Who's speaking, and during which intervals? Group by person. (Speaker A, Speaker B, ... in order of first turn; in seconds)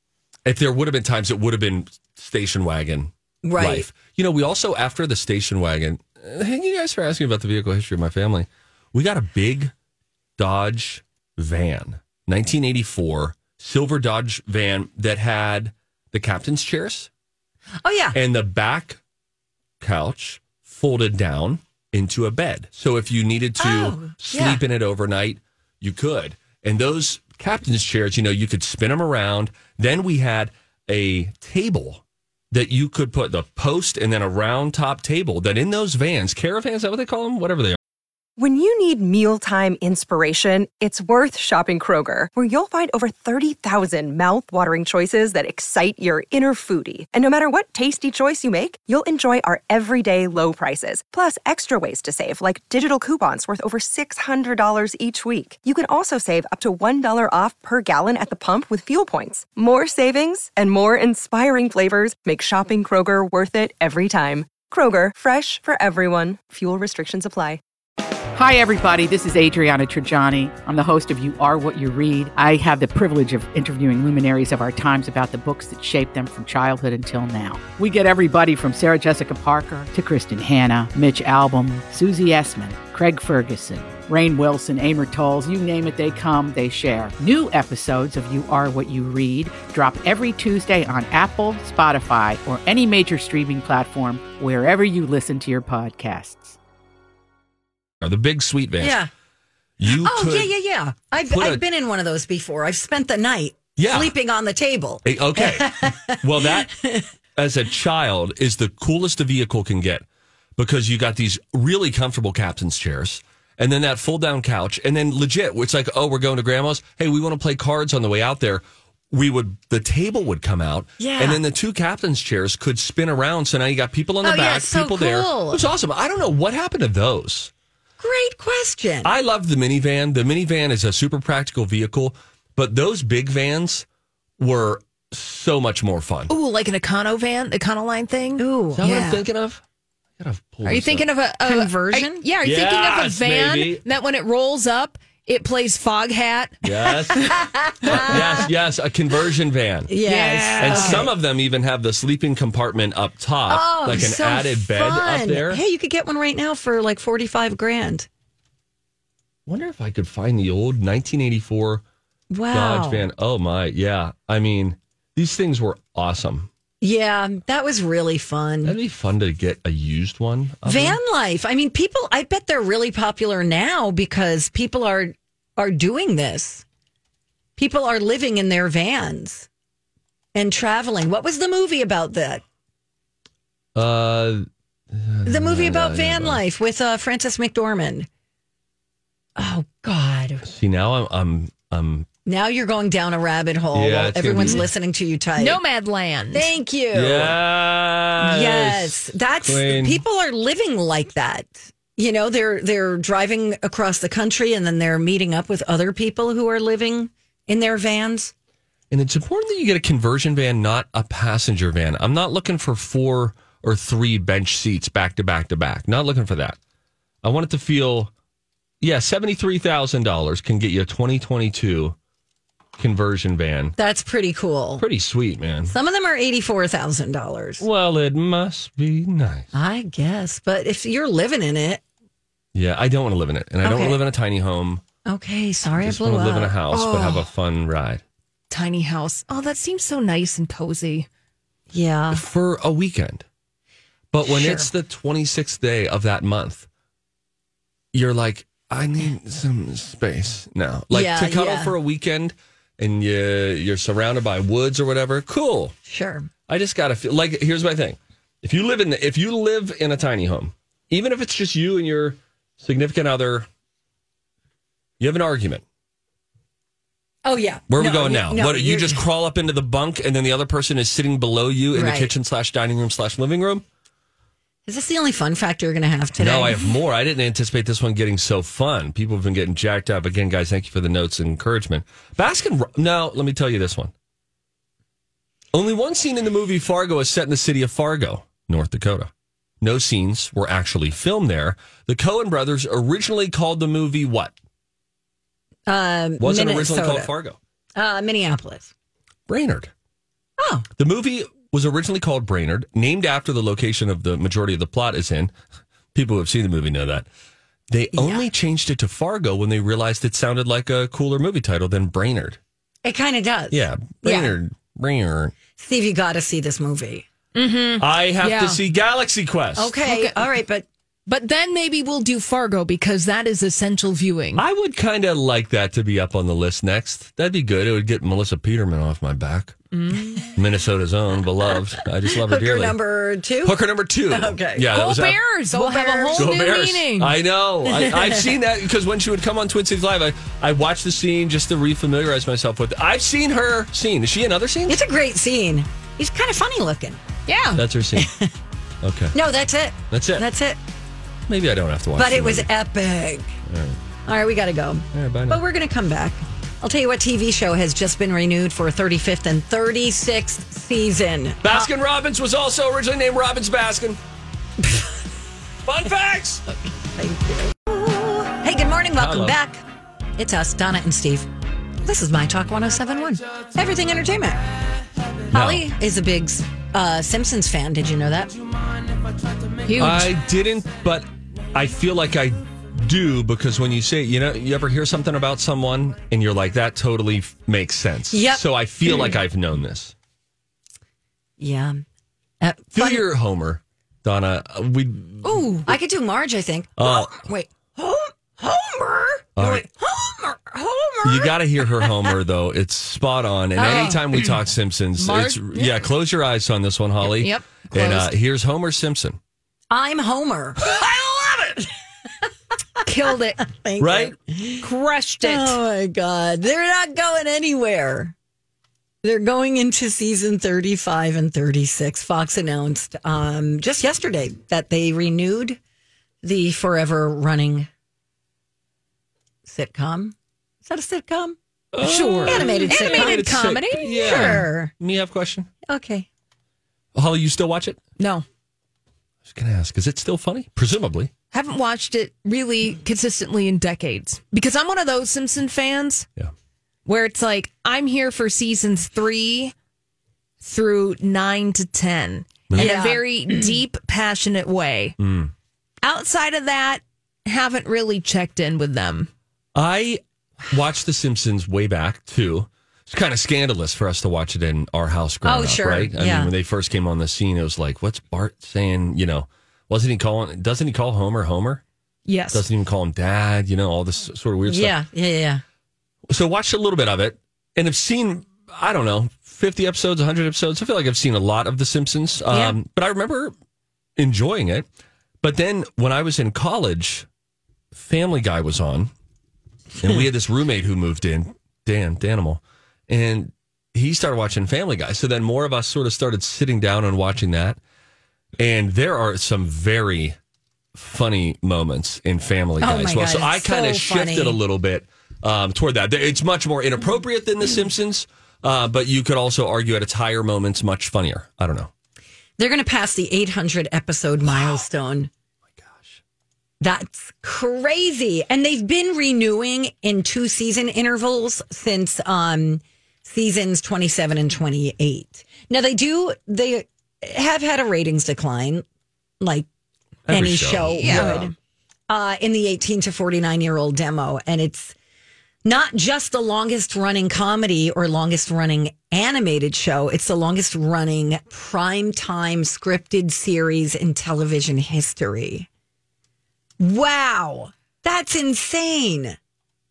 Speaker A: 0.4-9.7, 10.4-17.1, 18.1-19.0, 19.8-37.8, 98.0-99.0, 99.8-100.5, 101.3-101.6, 103.8-104.1, 105.0-106.7, 107.3-110.0, 110.6-127.5, 129.0-133.8, 134.4-136.3, 138.8-139.6, 140.2-141.1, 142.4-143.8, 146.6-149.9, 150.6-155.6, 159.5-161.8, 162.5-166.5, 168.6-171.0, 183.7-186.4, 190.4-192.1, 193.7-194.7, 196.9-200.0, 208.9-216.6, 217.2-218.1, 218.8-221.9, 222.8-223.8, 224.8-225.7, 227.6-229.5, 232.5-234.8, 235.8-238.0, 242.1-243.2, 244.1-246.7, 247.9-255.7, 256.5-263.5, 265.0-265.6, 267.7-273.6, 276.2-283.9, 285.5-289.1, 289.6-294.3, 296.2-297.4, 299.3-299.7, 300.8-305.3, 305.9-307.1, 307.7-312.4, 313.5-315.4, 317.8-319.8, 324.4-329.6, 330.4-332.8, 333.4-335.2, 336.1-344.8, 347.5-348.1, 348.8-349.1, 349.9-350.2, 351.3-352.5, 353.5-353.8, 354.9-355.4, 361.4-364.0, 365.6-366.4, 369.0-369.4, 375.3-375.7, 379.8-389.9, 392.7-395.5, 396.8-397.2, 399.4-399.6, 401.0-409.2, 413.8-414.1, 431.7-435.5, 436.9-437.8, 439.2-441.1, 452.5-452.8, 455.0-455.3, 459.5-471.6, 472.3-474.8, 476.1-483.3, 484.0-484.6, 485.2-487.1, 487.7-488.9, 489.8-497.6, 498.4-500.1, 500.7-511.7, 515.6-516.0, 530.1-531.2
Speaker B: 3.4-3.9, 17.8-18.2, 23.6-24.6, 98.8-99.1, 99.8-107.1, 121.0-121.4, 124.2-125.7, 128.0-129.1, 138.4-139.2, 141.4-142.2, 147.1-148.4, 149.9-151.1, 153.5-158.1, 162.3-163.1, 166.8-168.8, 170.6-176.6, 177.6-179.5, 180.3-182.4, 185.2-188.1, 189.3-190.4, 192.2-195.6, 196.3-197.4, 198.2-208.3, 223.8-224.8, 225.7-227.6, 229.5-231.8, 233.6-234.0, 235.1-236.6, 241.7-242.2, 244.2-244.7, 250.9-251.7, 255.8-256.3, 267.2-269.0, 271.7-272.1, 274.6-276.6, 295.7-297.1, 297.8-298.7, 300.4-300.7, 307.9-308.2, 312.8-314.3, 315.6-317.1, 319.6-320.7, 332.1-334.8, 335.5-336.4, 337.6-338.3, 344.7-347.0, 347.9-348.3, 349.1-350.6, 351.9-353.3, 354.1-361.7, 364.6-365.0, 366.9-369.6, 370.2-371.3, 371.8-374.4, 375.3-378.4, 388.1-388.4, 391.4-391.8, 392.4-393.0, 395.6-402.1, 403.6-404.3, 409.7-411.7, 413.4-414.7, 415.2-418.1, 419.0-425.6, 426.2-427.7, 429.4-431.4, 432.2-433.4, 434.0-434.7, 435.6-436.1, 452.6-453.6, 465.2-466.3, 474.4-475.4, 482.3-482.6, 502.6-504.4, 512.4-515.1, 516.6-528.6, 529.2-529.5, 530.1-531.3, 531.9-534.7, 535.4-545.5, 546.6-549.2
Speaker C: 38.4-67.6
Speaker D: 68.3-96.6
Speaker E: 136.3-138.4, 140.6-146.6, 147.9-148.2, 150.0-151.1, 195.4-196.5, 236.7-237.3, 238.5-241.1, 317.3-318.6, 319.8-320.1, 321.1-324.4, 329.7-330.3, 334.7-337.1, 347.3-347.6, 379.6-380.1, 395.2-395.7, 403.6-403.9, 405.0-405.7, 407.0-408.1, 412.8-413.4, 414.6-415.6, 431.8-434.4, 438.0-438.2, 441.3-446.1, 446.9-449.5, 450.4-454.9, 455.8-459.1, 472.1-472.4, 530.8-531.3